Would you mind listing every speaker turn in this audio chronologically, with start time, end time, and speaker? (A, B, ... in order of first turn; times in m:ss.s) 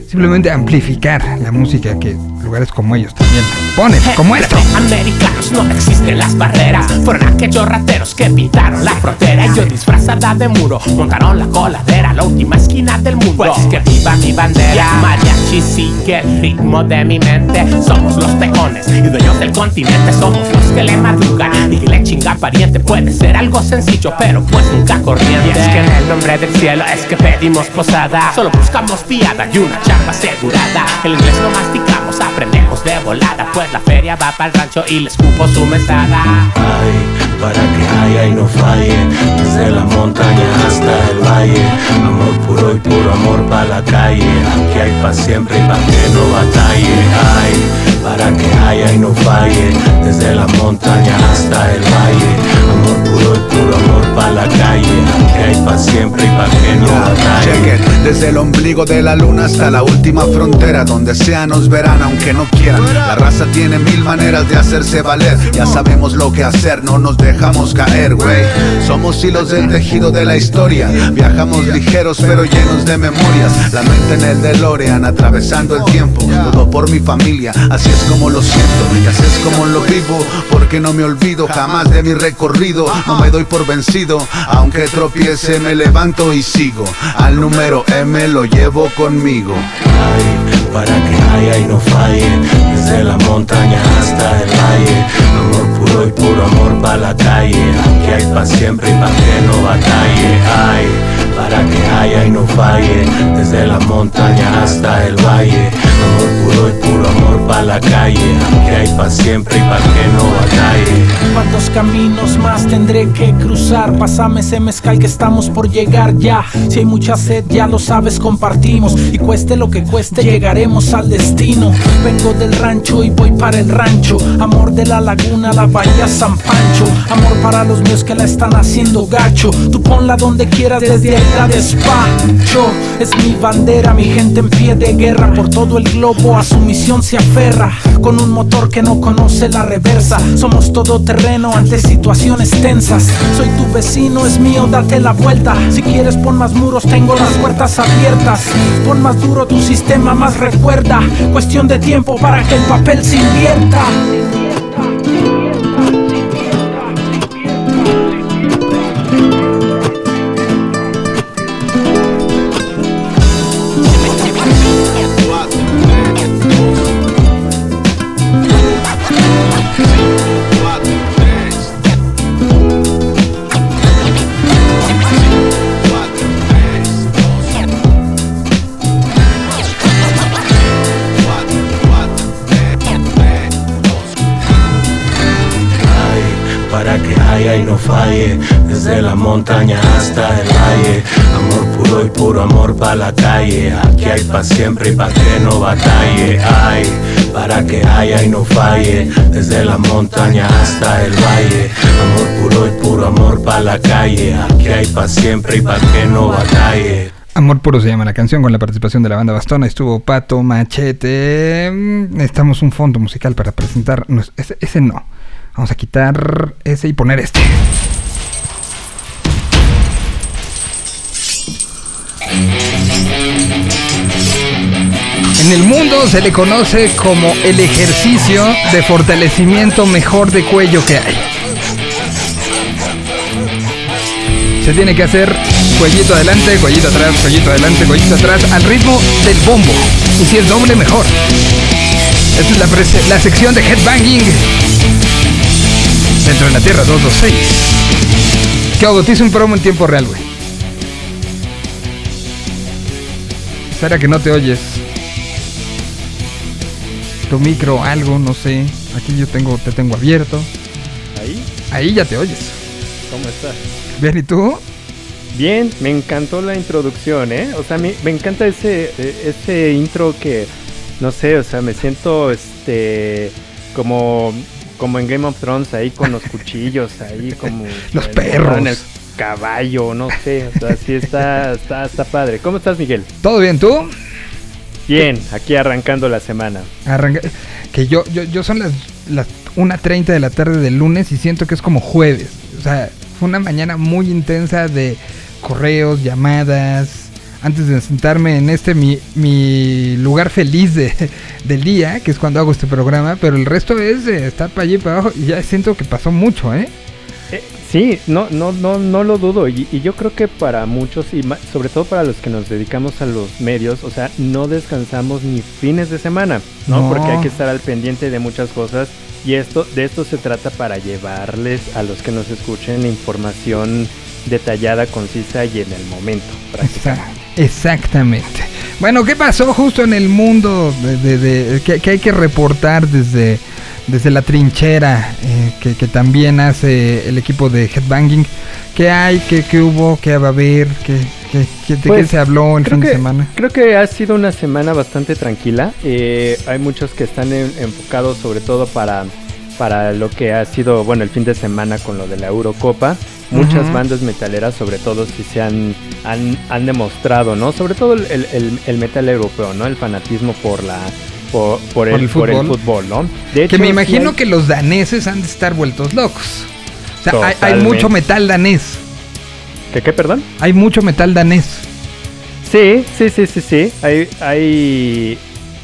0:00.1-0:04.7 A
0:04.0-0:36.5 B
0:36.6-0:57.8 C
0:56.8-1:29.7 D
1:29.8-1:51.2 C
1:51.3-2:34.0 E
3:05.8-3:27.1 C
3:27.4-3:37.6 A
3:45.4-3:51.2 A
3:54.6-4:01.1 A
4:02.3-4:04.5 A
4:06.2-4:07.8 A
4:08.8-4:10.3 A
4:13.7-4:14.8 A
4:17.3-4:20.5 A
4:21.1-4:21.5 F
4:21.7-4:22.6 A
4:23.1-4:23.6 F
4:24.0-4:24.6 A
4:25.3-4:43.1 F
4:37.9-4:38.8 A
4:43.2-4:43.9 A
4:44.9-4:46.7 F
4:46.9-5:06.7 A
5:07.3-5:27.0 F
5:16.7-5:17.3 A
5:26.6-5:43.3 A
5:41.8-6:04.2 F
5:53.3-5:53.8 A
6:01.9-6:02.6 A
6:03.5-6:06.5 A
6:07.0-6:08.8 A
6:07.1-6:07.9 F
6:09.7-6:10.3 F
6:10.4-6:11.7 A
6:12.4-6:15.2 F